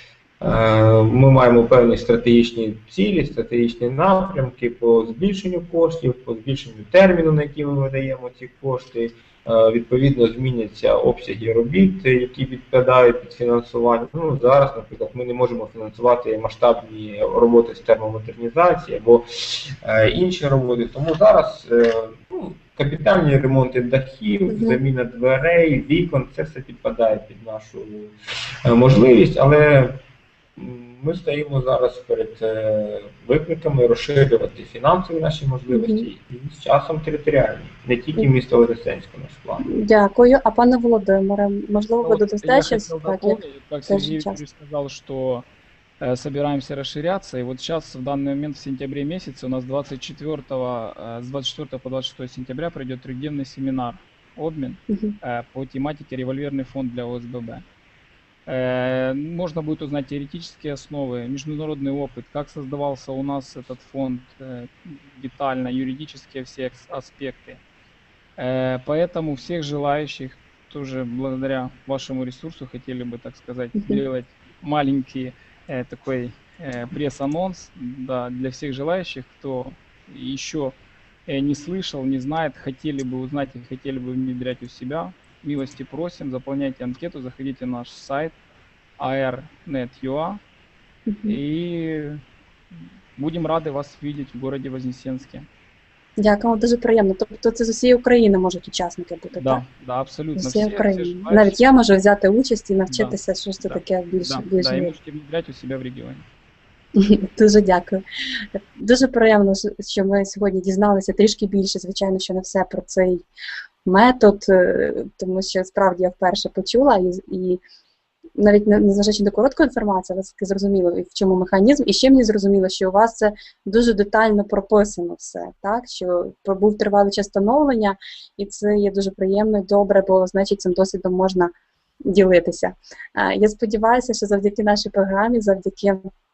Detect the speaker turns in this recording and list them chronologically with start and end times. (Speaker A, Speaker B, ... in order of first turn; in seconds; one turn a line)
Speaker A: 0.4-28.1
Speaker B: 24.5-24.8
Speaker A: 28.6-30.0
Speaker A: 30.6-39.6
Speaker B: 35.7-36.1
Speaker B: 39.7-44.4
Speaker C: 42.0-45.5
Speaker C: 46.0-57.6
Speaker B: 54.9-55.2
Speaker C: 58.5-67.6
Speaker C: 68.4-88.4
Speaker C: 89.0-90.4
Speaker B: 91.1-91.4
Speaker C: 91.3-92.2
Speaker C: 92.7-95.5
Speaker B: 96.2-99.6
Speaker C: 99.3-101.6
Speaker B: 100.4-104.9
Speaker C: 102.9-106.2
Speaker B: 107.0-108.0
Speaker B: 108.8-113.3
Speaker B: 113.8-117.6
Speaker B: 118.4-131.5
Speaker B: 132.1-136.1